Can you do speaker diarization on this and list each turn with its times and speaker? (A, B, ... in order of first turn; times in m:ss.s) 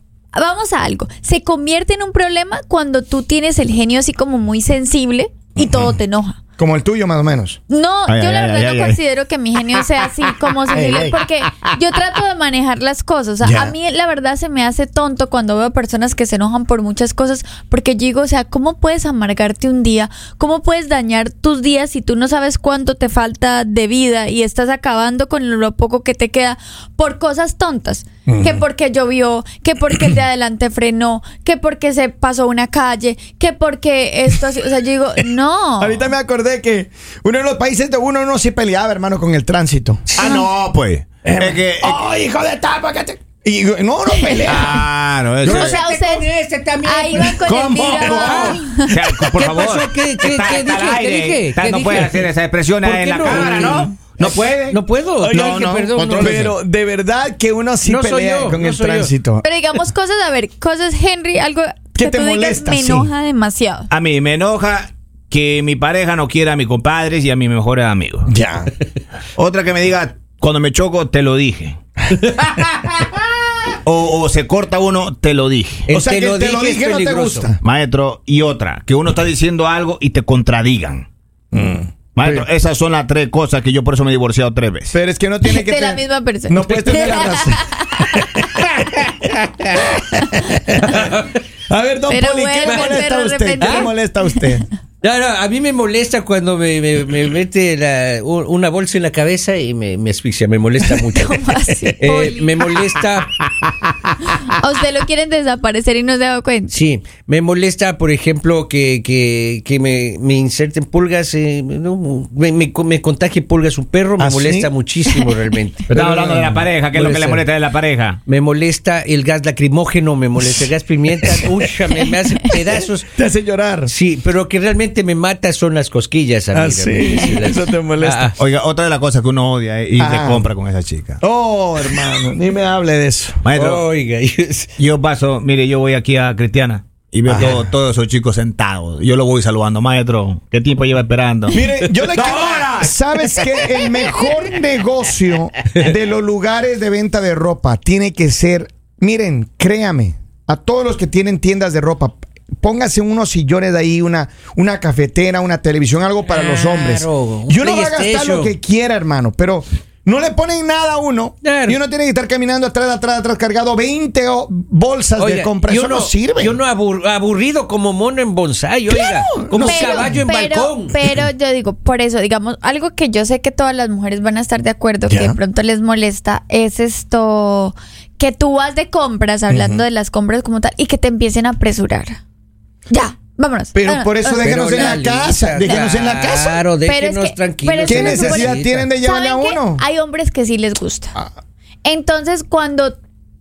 0:00.3-0:06.4 A
0:06.6-0:07.6 B
0:07.7-0:36.0 A
0:08.1-0:09.0 C
0:10.8-0:11.1 B
0:13.4-0:13.7 B
0:28.3-0:28.6 B
0:35.8-0:40.0 B
0:40.1-0:40.4 D
0:40.2-0:42.0 C
0:41.3-0:44.9 B
0:44.1-0:44.6 A
0:44.5-0:45.8 C
0:45.4-0:46.3 A
0:45.4-0:45.7 B
0:45.4-0:48.6 D
0:46.8-0:49.2 A
0:47.5-0:48.3 B
0:47.5-0:54.8 C
0:49.3-0:52.3 D
0:52.8-0:56.5 D
0:55.2-0:59.4 B
0:55.3-0:56.5 C
0:57.8-0:59.1 D
0:59.4-1:03.9 A
1:02.0-1:03.1 B
1:03.9-1:08.3 C
1:08.3-1:08.7 B
1:09.4-1:11.8 C
1:13.8-1:15.9 C
1:15.9-1:17.5 D
1:15.9-1:17.6 B
1:17.6-1:21.1 C
1:21.5-1:22.4 B
1:22.1-1:25.0 C
1:24.9-1:27.6 B
1:25.4-1:28.1 A
1:26.7-1:27.1 D
1:30.1-1:30.6 A
1:30.5-1:31.4 D
1:31.7-1:34.7 B
1:32.1-1:33.9 A
1:32.7-1:33.0 D
1:33.6-1:33.9 D
1:35.0-1:43.4 D
1:41.1-1:42.5 A
1:44.3-1:46.7 A
1:46.7-1:56.0 D
1:54.2-1:54.7 B
1:55.9-1:58.2 C
1:55.9-1:56.6 B
1:56.9-1:57.5 D
1:58.3-2:03.0 D
2:00.4-2:01.6 B
2:02.5-2:03.9 B
2:03.9-2:08.4 D
2:06.5-2:08.3 B
2:08.4-2:11.2 C
2:10.0-2:10.4 B
2:11.2-2:13.4 B
2:13.4-2:13.8 C
2:13.5-2:14.7 D
2:14.8-2:21.6 C
2:17.3-2:17.7 B
2:21.5-2:46.6 B
2:22.1-2:23.0 C
2:36.3-2:38.6 D
2:41.4-2:41.8 D
2:45.2-2:51.0 D
2:48.9-2:50.2 B
2:49.5-3:02.2 A
2:55.1-2:55.4 B
2:59.5-2:59.8 B
3:02.9-3:05.0 A
3:03.7-3:06.6 B
3:04.4-3:08.9 D
3:05.6-3:05.9 A
3:06.8-3:11.1 A
3:07.8-3:09.8 B
3:11.8-3:13.0 A